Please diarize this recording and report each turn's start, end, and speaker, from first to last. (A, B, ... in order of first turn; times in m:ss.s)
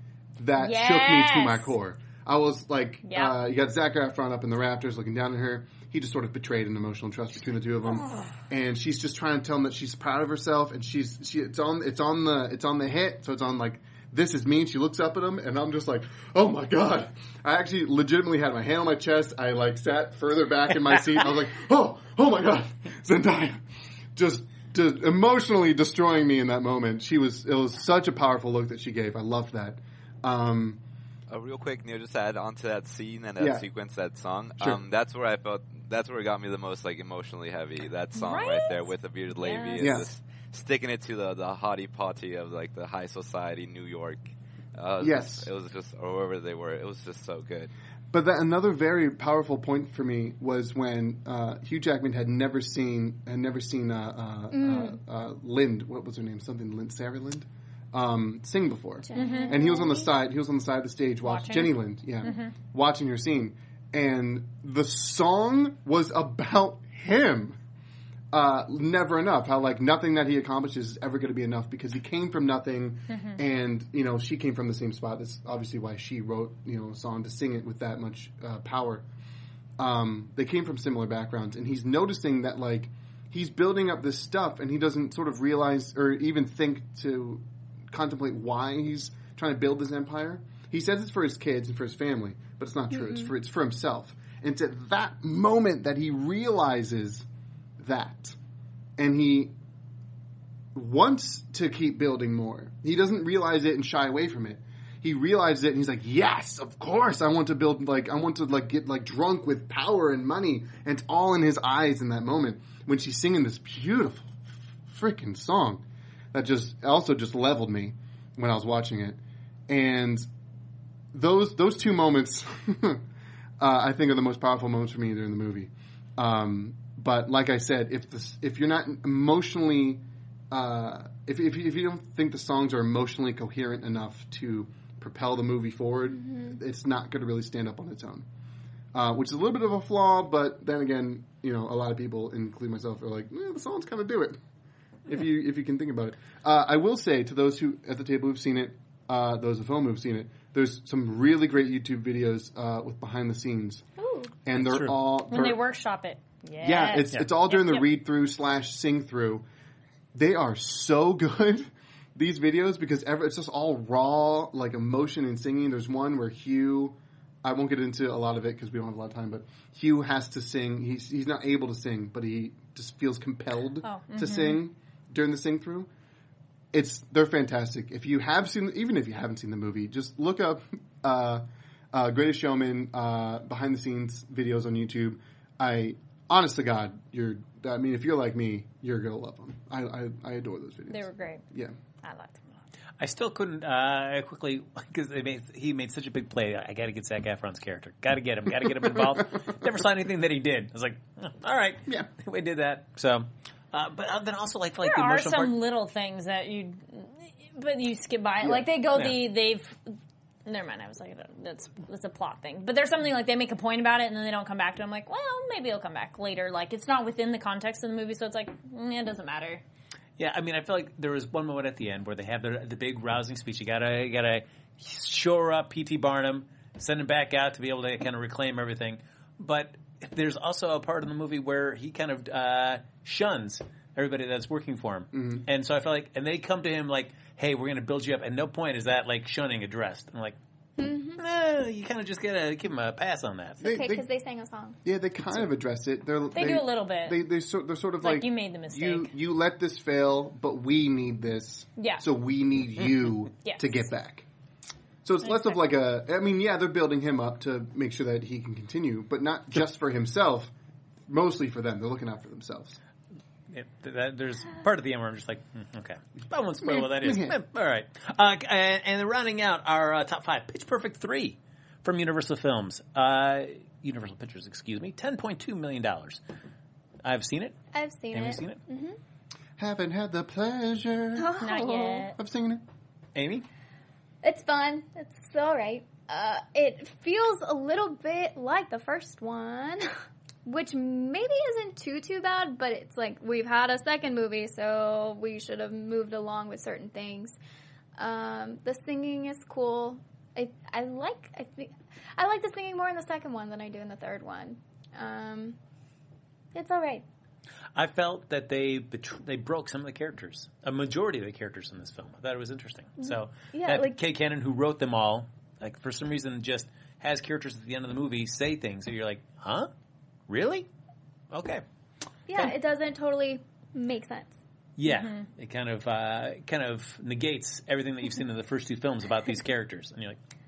0:00.4-0:23.6 A
0:00.6-0:01.7 B
0:03.0-0:03.4 B
0:24.2-0:30.8 A
0:31.3-0:47.7 C
0:33.4-0:33.6 A
0:38.2-0:40.0 B
0:39.8-0:40.1 A
0:45.0-0:45.5 A
0:48.1-1:07.6 A
0:54.5-0:55.0 D
0:59.0-1:00.1 D
0:59.2-0:59.6 B
1:01.2-1:02.5 B
1:08.3-1:19.1 A
1:13.1-1:13.4 B
1:19.8-1:37.3 A
1:37.8-1:38.4 A
1:39.0-1:39.5 A
1:40.7-2:00.3 A
2:01.1-2:03.0 A
2:03.6-2:18.3 A
2:16.2-2:16.6 D
2:18.9-2:24.4 A
2:25.1-2:33.8 A
2:34.0-2:34.3 D
2:34.4-2:35.6 A
2:34.5-2:35.0 E
2:35.3-2:37.8 B
2:36.6-2:39.5 A
2:40.1-2:55.9 A
2:53.8-2:54.6 B
2:56.7-3:11.8 A
3:10.9-3:11.4 B
3:12.0-3:12.6 B
3:13.0-3:25.6 E
3:24.8-3:39.6 B
3:28.4-3:28.7 A
3:28.9-3:29.2 E
3:40.2-4:00.4 E
3:55.1-3:55.4 A
4:00.8-4:01.2 D
4:01.2-4:03.6 E
4:03.6-4:04.8 D
4:03.6-4:04.0 A
4:04.8-4:14.3 A
4:06.3-4:07.2 B
4:08.0-4:09.1 B
4:11.8-4:12.1 B
4:13.4-4:13.9 B
4:15.0-4:20.5 A
4:15.2-4:15.7 B
4:21.1-4:22.8 A
4:23.5-4:36.2 E
4:26.7-4:27.4 A
4:37.0-4:37.6 E
4:37.7-4:39.0 D
4:38.1-4:38.6 E
4:39.6-4:41.3 A
4:41.2-4:42.1 D
4:41.4-4:42.2 B
4:42.2-4:42.6 A
4:43.2-4:43.5 E
4:44.2-4:49.9 D
4:50.4-4:57.4 D
4:58.0-5:05.6 D
5:06.5-5:07.0 D
5:07.8-5:19.7 E
5:13.0-5:14.0 D
5:20.3-5:20.7 E
5:21.3-5:21.6 E
5:22.3-5:24.4 D
5:24.8-5:30.2 E
5:24.9-5:25.2 B